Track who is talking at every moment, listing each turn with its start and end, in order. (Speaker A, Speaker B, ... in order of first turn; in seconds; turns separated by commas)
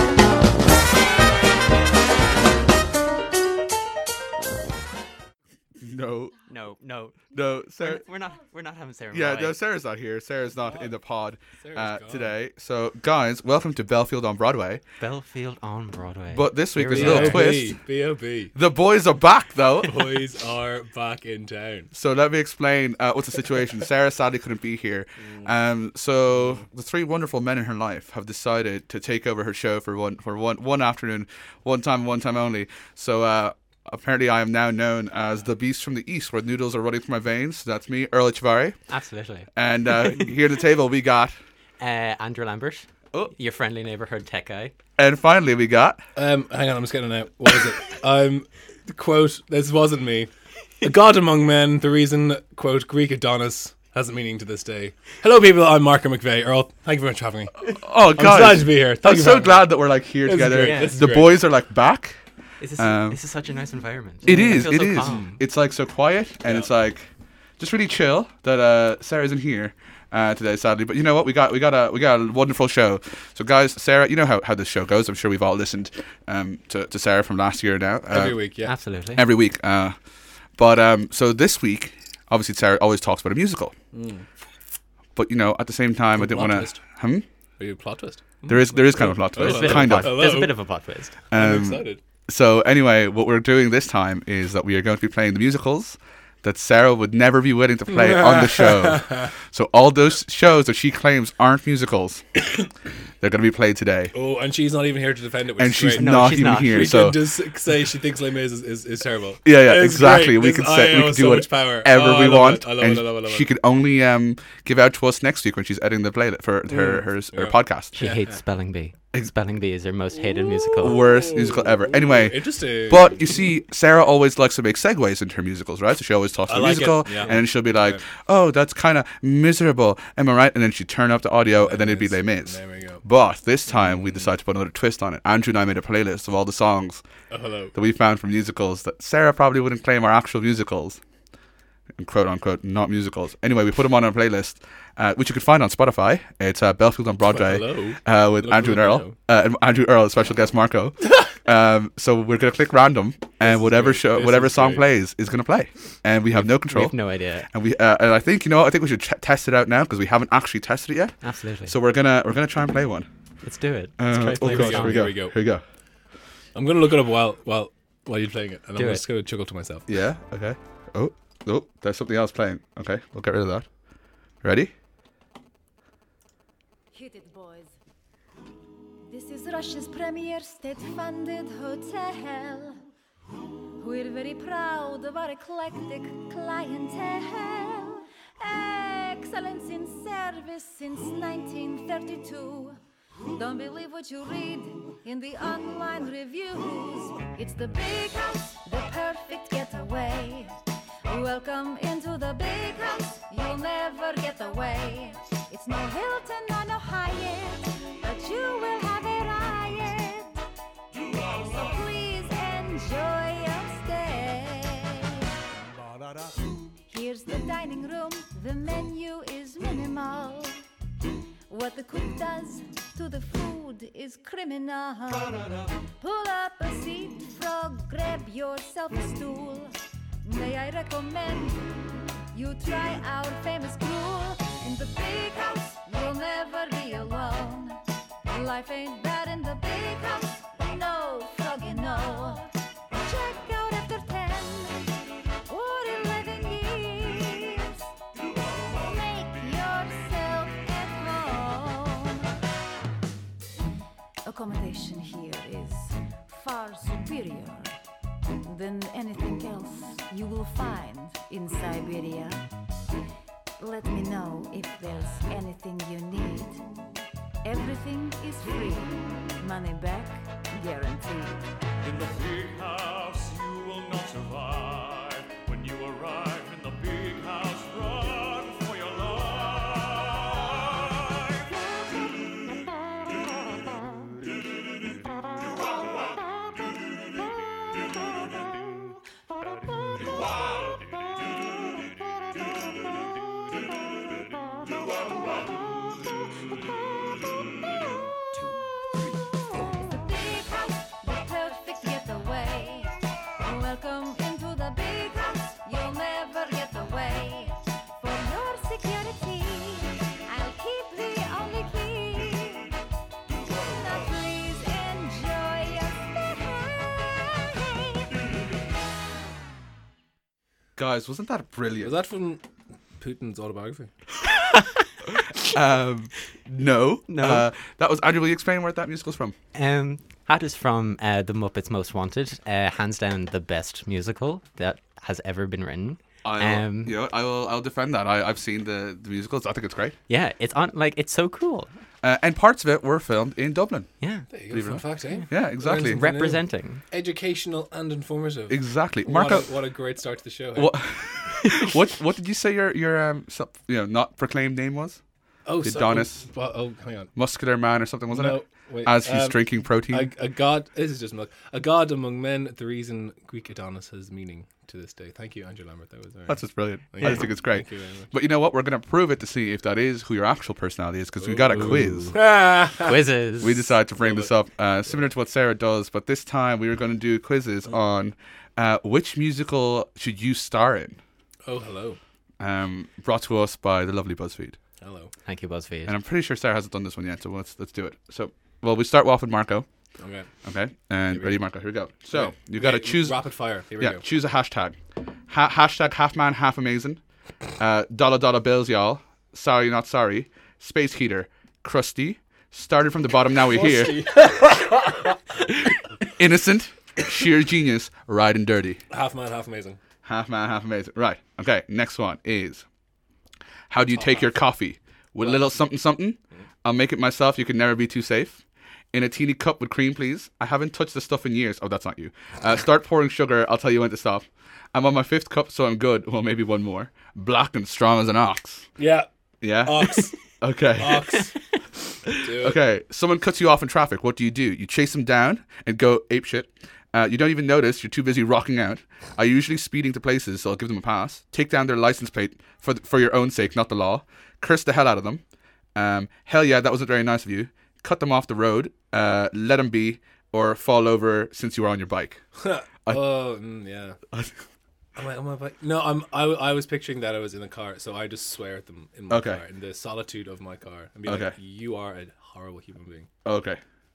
Speaker A: 5.8-6.3, Speaker B: 6.5-7.2, Speaker A: 7.3-8.0, Speaker B: 7.8-9.6, Speaker A: 9.1-14.8, Speaker C: 10.6-10.9, Speaker C: 11.6-12.3, Speaker B: 15.0-17.6, Speaker A: 16.3-17.8, Speaker C: 16.9-18.5, Speaker A: 18.5-20.0, Speaker C: 19.8-21.9, Speaker A: 21.9-38.8, Speaker B: 38.9-39.5, Speaker A: 39.5-41.4, Speaker B: 41.8-44.7, Speaker A: 45.0-46.0, Speaker C: 46.1-50.3, Speaker C: 50.8-61.4, Speaker A: 57.6-62.2, Speaker B: 60.6-61.1, Speaker B: 62.6-65.3, Speaker A: 62.8-63.2, Speaker A: 64.2-67.1, Speaker C: 64.2-65.4, Speaker A: 67.6-80.0, Speaker C: 78.1-78.7, Speaker B: 78.6-79.2, Speaker A: 80.6-83.7, Speaker C: 83.9-84.2, Speaker A: 85.1-87.2, Speaker C: 86.2-86.8, Speaker C: 87.6-90.5, Speaker A: 88.5-90.4, Speaker B: 89.4-91.1, Speaker A: 91.3-102.2, Speaker C: 91.3-92.0, Speaker C: 97.9-99.3, Speaker A: 103.2-104.1, Speaker C: 104.1-113.5, Speaker A: 105.6-107.2, Speaker B: 105.9-107.0, Speaker A: 109.4-117.9, Speaker C: 116.7-118.3, Speaker B: 117.9-121.0, Speaker C: 120.6-123.5, Speaker A: 120.8-137.0, Speaker C: 126.5-128.0, Speaker C: 131.6-133.0, Speaker C: 133.7-134.3, Speaker C: 137.3-137.7, Speaker A: 137.7-141.0, Speaker A: 141.9-157.0, Speaker C: 147.3-149.1, Speaker C: 153.4-154.8, Speaker B: 156.4-157.5, Speaker A: 157.5-163.1, Speaker B: 161.2-161.7, Speaker B: 163.4-165.1, Speaker A: 164.0-165.6, Speaker C: 164.3-165.3, Speaker C: 166.5-169.8, Speaker B: 168.8-169.0, Speaker A: 169.9-173.7, Speaker A: 174.4-174.7, Speaker D: 176.9-177.7, Speaker D: 179.1-182.8, Speaker D: 183.8-192.8, Speaker D: 193.3-200.5, Speaker D: 201.1-210.3, Speaker D: 211.4-215.2, Speaker D: 216.8-220.6, Speaker D: 221.5-244.9, Speaker D: 245.5-247.8, Speaker D: 248.7-252.3, Speaker D: 254.2-257.8, Speaker D: 258.4-262.4, Speaker D: 263.6-266.6, Speaker D: 267.4-271.4, Speaker E: 271.9-279.7, Speaker D: 299.5-312.7, Speaker D: 313.6-318.1, Speaker A: 320.8-321.9, Speaker C: 321.8-322.4, Speaker C: 323.0-323.9, Speaker A: 325.1-329.3, Speaker B: 327.1-327.5, Speaker B: 329.5-337.0, Speaker A: 336.2-340.0, Speaker B: 340.1-341.7, Speaker A: 342.0-343.9, Speaker B: 344.0-344.2, Speaker C: 344.3-350.8, Speaker A: 344.5-346.1, Speaker B: 345.8-346.8, Speaker A: 348.5-349.6, Speaker A: 350.5-355.0, Speaker C: 355.4-357.1, Speaker A: 355.6-356.2, Speaker A: 357.1-360.1, Speaker C: 358.1-368.1, Speaker A: 366.3-372.2, Speaker C: 371.2-372.9, Speaker B: 371.6-373.7, Speaker A: 373.4-381.0, Speaker C: 374.0-374.3, Speaker C: 381.4-382.0, Speaker A: 382.4-384.6, Speaker C: 384.8-385.1, Speaker B: 385.2-385.9, Speaker A: 385.9-389.7, Speaker C: 390.0-390.3, Speaker A: 390.4-394.8, Speaker C: 391.1-391.4, Speaker C: 392.1-394.0, Speaker A: 395.3-397.0, Speaker A: 397.6-404.2, Speaker C: 403.4-405.2, Speaker A: 406.1-408.8, Speaker C: 408.9-409.8, Speaker A: 410.0-412.6, Speaker A: 413.7-428.7, Speaker C: 413.9-414.3, Speaker C: 415.2-415.6, Speaker C: 428.8-429.1, Speaker A: 429.4-431.3, Speaker C: 429.6-430.1, Speaker C: 430.8-431.4, Speaker A: 432.0-445.2, Speaker C: 432.2-432.6, Speaker A: 445.7-452.2, Speaker C: 452.4-454.0, Speaker A: 454.1-454.4, Speaker C: 454.9-463.1, Speaker A: 459.1-459.4, Speaker A: 461.0-461.3, Speaker A: 463.2-463.6